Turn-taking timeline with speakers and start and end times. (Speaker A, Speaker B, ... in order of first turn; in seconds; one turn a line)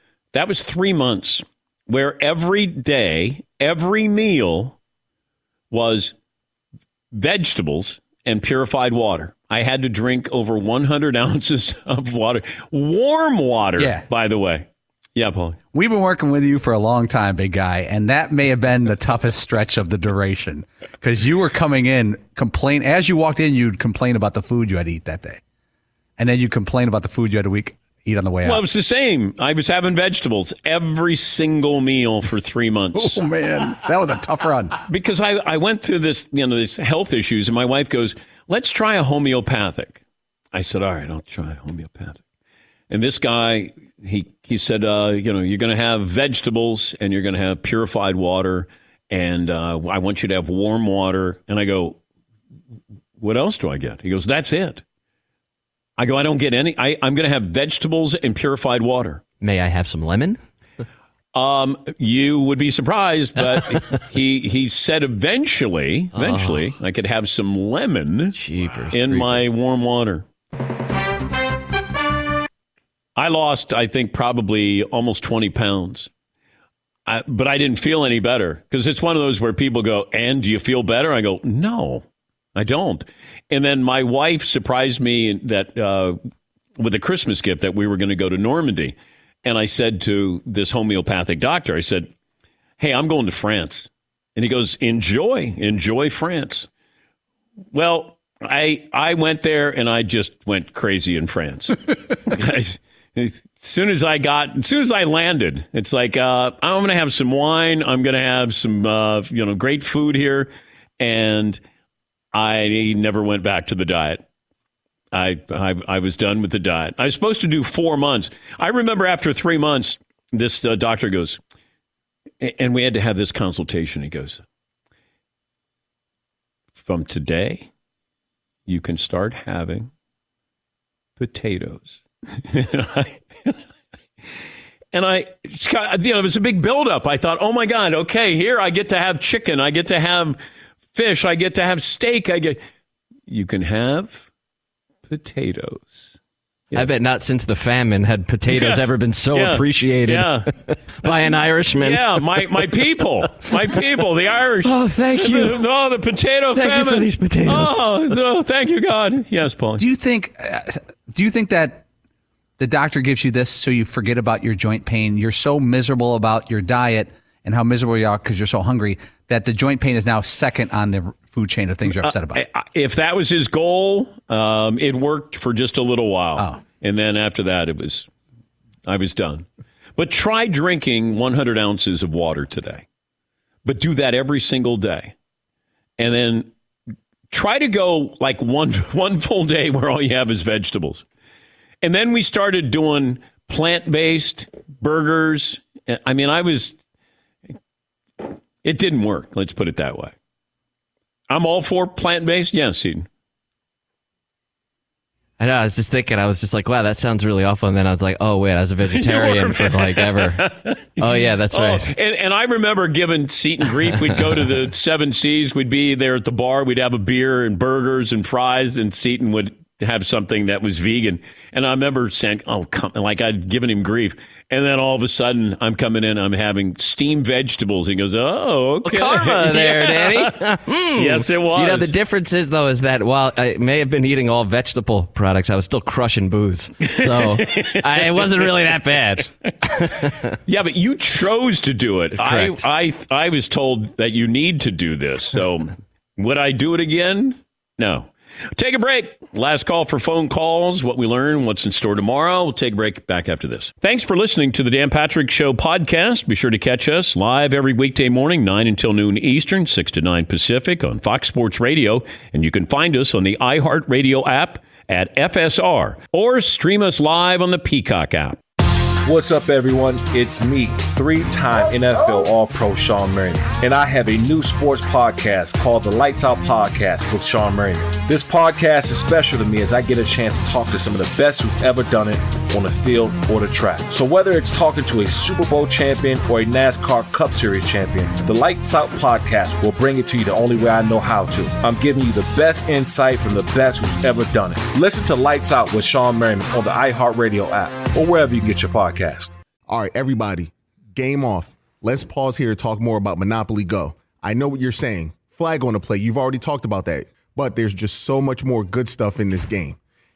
Speaker A: 0.3-4.8
Speaker A: 5.7-6.1
Speaker A: 7.1-15.6
Speaker B: 13.8-14.1
Speaker B: 15.7-25.4
Speaker B: 26.2-28.6
Speaker A: 28.4-33.2
Speaker B: 33.0-34.8
Speaker A: 34.9-40.0
Speaker A: 40.5-42.2
Speaker A: 42.9-52.0
Speaker A: 53.2-54.8
Speaker A: 56.0-59.2
Speaker C: 59.4-60.4
Speaker A: 61.3-68.4
Speaker C: 63.6-64.0
Speaker C: 66.1-66.7
Speaker C: 68.3-69.5
Speaker A: 68.9-70.2
Speaker A: 73.2-76.1
Speaker A: 77.1-86.2
Speaker A: 86.8-92.1
Speaker A: 92.8-96.7
Speaker A: 97.7-111.6
Speaker A: 112.3-114.2
Speaker A: 115.1-121.4
Speaker A: 122.4-124.4
Speaker A: 126.8-127.7
Speaker A: 128.7-129.9
Speaker A: 131.2-133.6
Speaker A: 134.9-140.4
Speaker A: 140.9-142.6
Speaker A: 143.3-144.3
Speaker A: 145.1-146.2
Speaker C: 146.7-152.6
Speaker A: 148.5-150.5
Speaker A: 151.0-159.8
Speaker C: 153.4-153.8
Speaker C: 154.6-155.6
Speaker C: 156.6-157.8
Speaker B: 159.8-161.8
Speaker B: 162.6-172.4
Speaker A: 171.9-178.1
Speaker A: 178.9-182.8
Speaker A: 183.7-185.1
Speaker A: 186.0-186.5
Speaker A: 187.3-191.0
Speaker A: 191.8-196.8
Speaker A: 198.2-200.1
Speaker A: 201.3-203.1
Speaker C: 205.4-210.5
Speaker A: 208.9-230.4
Speaker C: 211.0-211.9
Speaker C: 213.9-214.5
Speaker C: 228.8-240.3
Speaker A: 231.0-231.9
Speaker A: 236.8-239.2
Speaker A: 240.5-268.4
Speaker C: 242.1-242.6
Speaker D: 269.1-299.3
Speaker E: 299.7-309.8